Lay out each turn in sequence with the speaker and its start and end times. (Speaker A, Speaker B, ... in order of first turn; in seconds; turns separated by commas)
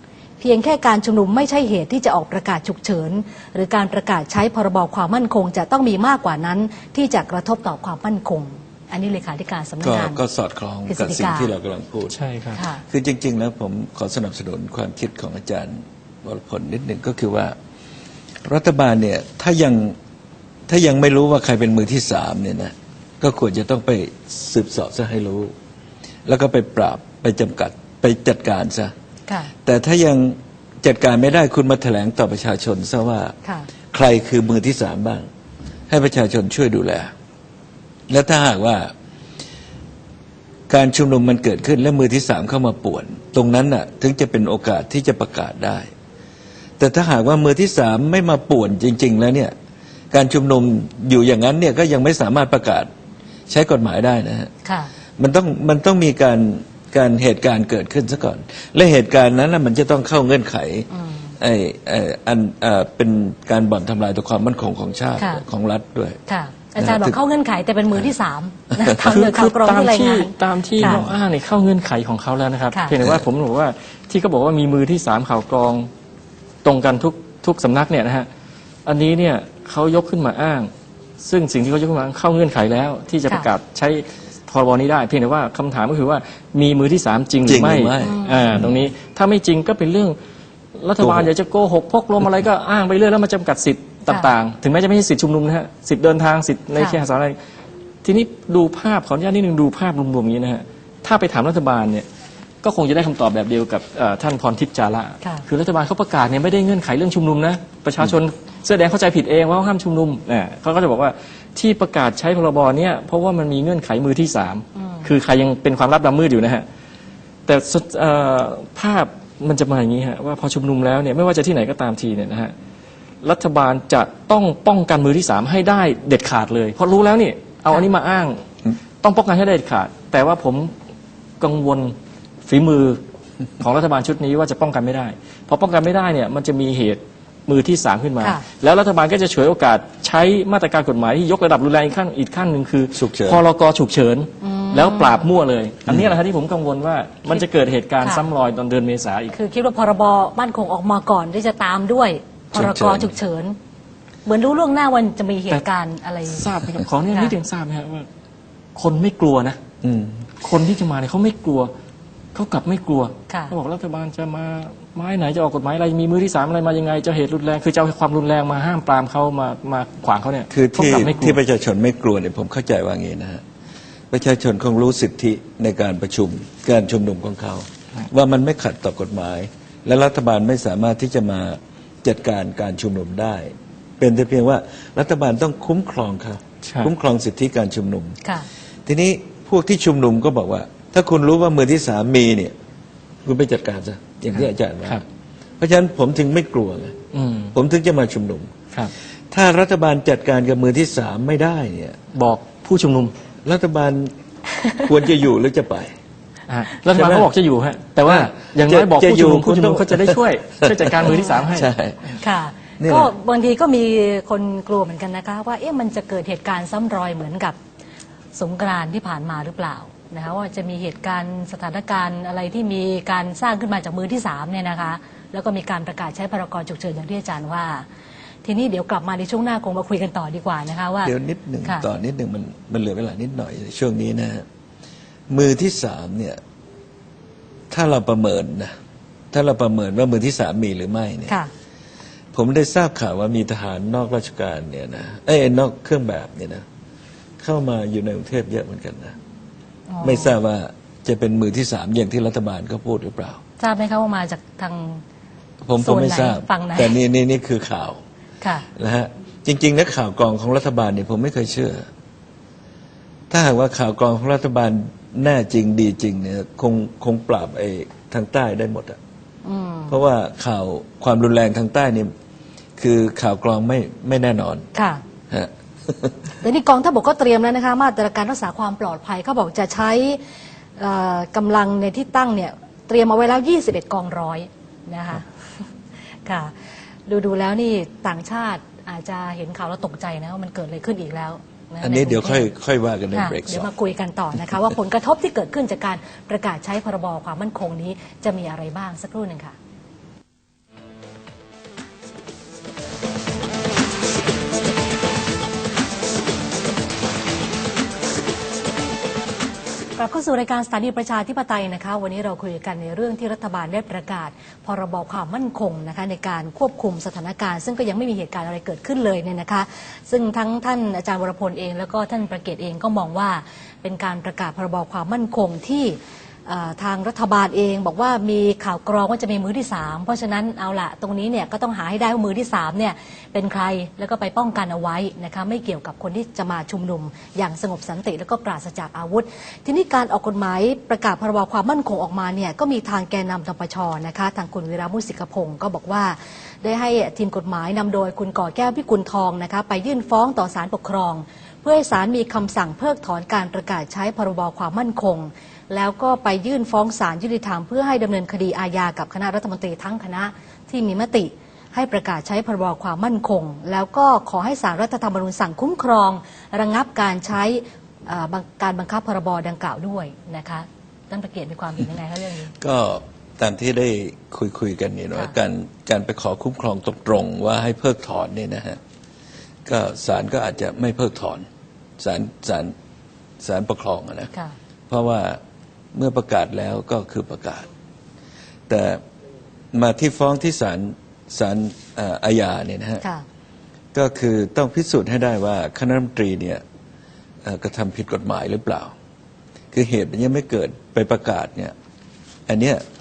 Speaker A: 0.4-10.2, Speaker B: 9.8-12.2, Speaker A: 10.9-11.5, Speaker C: 12.1-12.6, Speaker A: 12.6-12.8, Speaker B: 12.8-17.6, Speaker B: 18.4-20.0, Speaker B: 20.7-25.5, Speaker B: 26.3-28.9, Speaker A: 29.3-29.5, Speaker B: 29.6-33.4, Speaker A: 33.4-33.7, Speaker B: 33.9-35.3, Speaker B: 35.9-37.1, Speaker B: 38.1-38.9, Speaker B: 40.7-45.9, Speaker B: 46.8-49.5, Speaker B: 50.1-52.9, Speaker B: 53.5-54.5, Speaker A: 54.6-54.9, Speaker B: 55.2-60.9, Speaker A: 60.9-61.4, Speaker B: 61.4-66.2, Speaker A: 65.2-65.4, Speaker A: 66.3-71.0, Speaker B: 66.8-67.2, Speaker B: 68.7-69.1, Speaker C: 69.1-75.9, Speaker B: 70.8-71.1, Speaker B: 73.0-73.3, Speaker C: 76.6-78.3, Speaker C: 78.9-90.2, Speaker B: 87.4-88.8, Speaker A: 88.0-88.6, Speaker C: 90.8-97.4, Speaker B: 91.0-91.3, Speaker A: 94.1-94.3, Speaker A: 96.8-97.0, Speaker C: 98.0-102.1, Speaker C: 102.6-116.7, Speaker A: 114.8-115.1, Speaker C: 117.5-122.5, Speaker C: 123.2-128.5, Speaker C: 129.0-130.7, Speaker C: 131.4-133.0, Speaker C: 133.6-149.3, Speaker A: 138.2-138.4, Speaker B: 142.9-143.4, Speaker A: 144.4-145.3, Speaker B: 145.9-146.1, Speaker A: 148.0-148.3, Speaker A: 149.3-153.6, Speaker B: 152.5-153.1, Speaker A: 154.3-156.4, Speaker C: 156.3-158.1, Speaker A: 157.1-157.4, Speaker C: 158.8-159.6, Speaker B: 159.8-160.3, Speaker C: 160.4-161.7, Speaker C: 162.3-171.4, Speaker B: 170.5-173.4, Speaker B: 174.1-188.2, Speaker C: 186.7-186.9, Speaker B: 188.9-192.5, Speaker B: 193.2-195.0, Speaker C: 194.3-195.0, Speaker B: 195.6-197.0, Speaker C: 197.1-197.6, Speaker B: 197.5-198.5, Speaker B: 199.3-202.0, Speaker C: 202.1-203.1, Speaker B: 203.4-204.1, Speaker B: 204.8-205.9, Speaker C: 206.5-211.7, Speaker B: 206.9-207.3, Speaker B: 208.1-212.0, Speaker A: 211.1-211.5, Speaker A: 212.2-217.6, Speaker B: 212.8-213.1, Speaker A: 218.3-227.9, Speaker A: 228.4-231.1, Speaker B: 231.0-234.4, Speaker B: 235.3-236.4, Speaker B: 237.7-238.7, Speaker B: 239.3-241.3, Speaker B: 242.3-246.6, Speaker B: 247.4-249.2, Speaker A: 249.9-250.4, Speaker B: 250.0-253.4, Speaker A: 253.6-255.0, Speaker B: 255.6-258.0, Speaker A: 255.8-257.0, Speaker A: 258.4-258.7, Speaker B: 258.8-261.9, Speaker B: 263.3-269.0, Speaker A: 269.4-270.0, Speaker B: 269.9-272.1, Speaker B: 272.8-274.7, Speaker A: 274.7-275.0, Speaker B: 275.3-276.2, Speaker A: 276.4-280.2, Speaker A: 280.8-292.5, Speaker B: 291.8-293.7, Speaker A: 293.1-299.6, Speaker A: 310.0-372.5, Speaker B: 372.6-378.8, Speaker B: 379.7-381.4, Speaker B: 382.0-382.8, Speaker B: 383.4-384.3, Speaker B: 384.9-385.4, Speaker B: 385.9-387.7, Speaker B: 388.7-389.0, Speaker B: 389.7-393.0, Speaker B: 393.9-396.6, Speaker B: 397.4-398.9, Speaker B: 399.7-401.7, Speaker B: 402.5-402.8